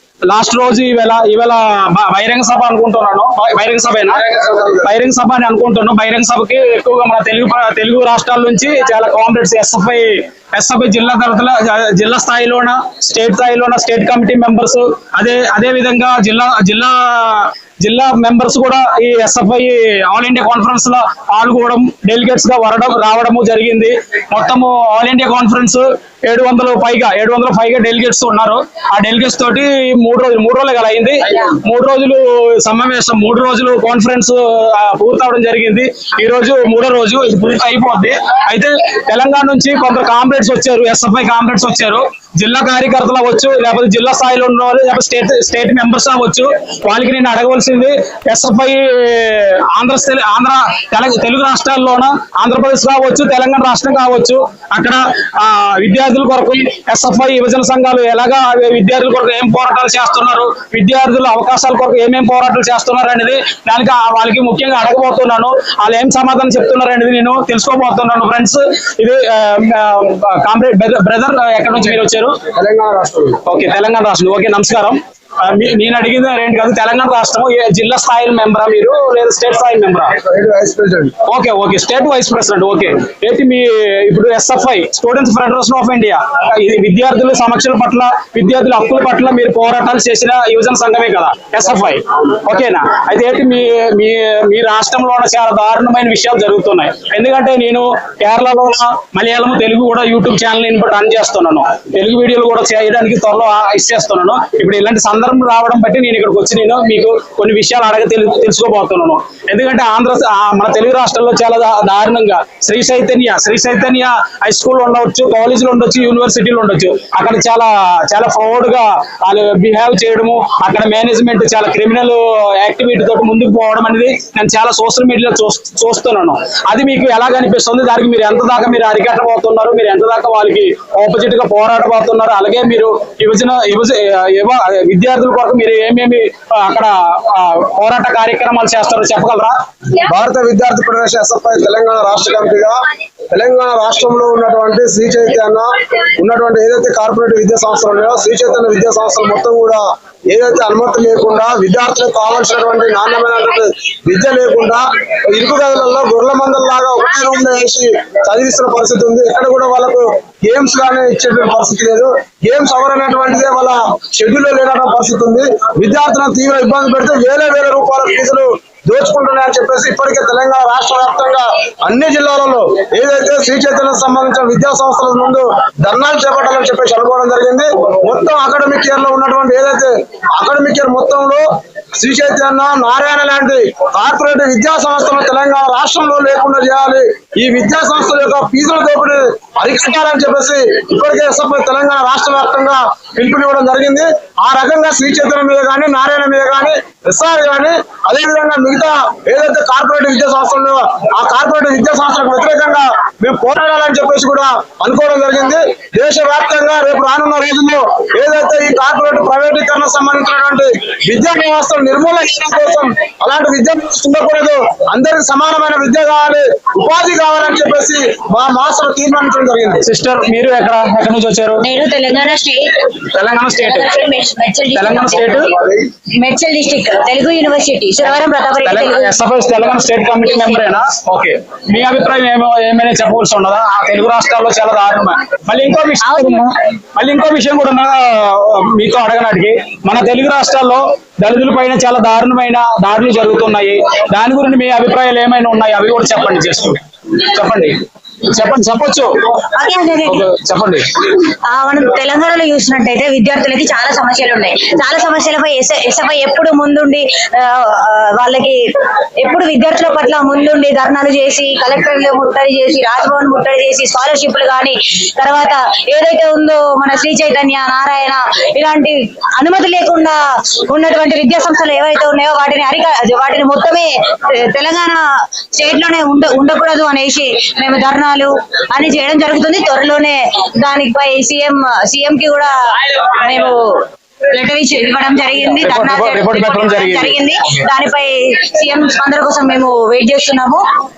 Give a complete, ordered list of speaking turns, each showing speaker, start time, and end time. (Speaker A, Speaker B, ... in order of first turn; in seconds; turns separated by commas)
Speaker A: 0.3-4.2, Speaker B: 4.3-4.8, Speaker A: 4.8-72.4, Speaker B: 72.5-73.4, Speaker A: 73.5-80.1, Speaker B: 80.2-81.1, Speaker A: 81.3-139.5, Speaker B: 140.1-142.8, Speaker B: 143.3-181.4, Speaker B: 182.0-219.8, Speaker A: 219.8-221.6, Speaker C: 221.6-222.8, Speaker A: 223.0-224.0, Speaker C: 223.6-225.6, Speaker A: 224.7-225.5, Speaker C: 226.2-229.1, Speaker A: 228.6-249.1, Speaker C: 236.0-236.5, Speaker C: 249.5-250.2, Speaker A: 250.0-250.9, Speaker C: 251.5-258.6, Speaker C: 259.2-290.6, Speaker A: 285.6-287.2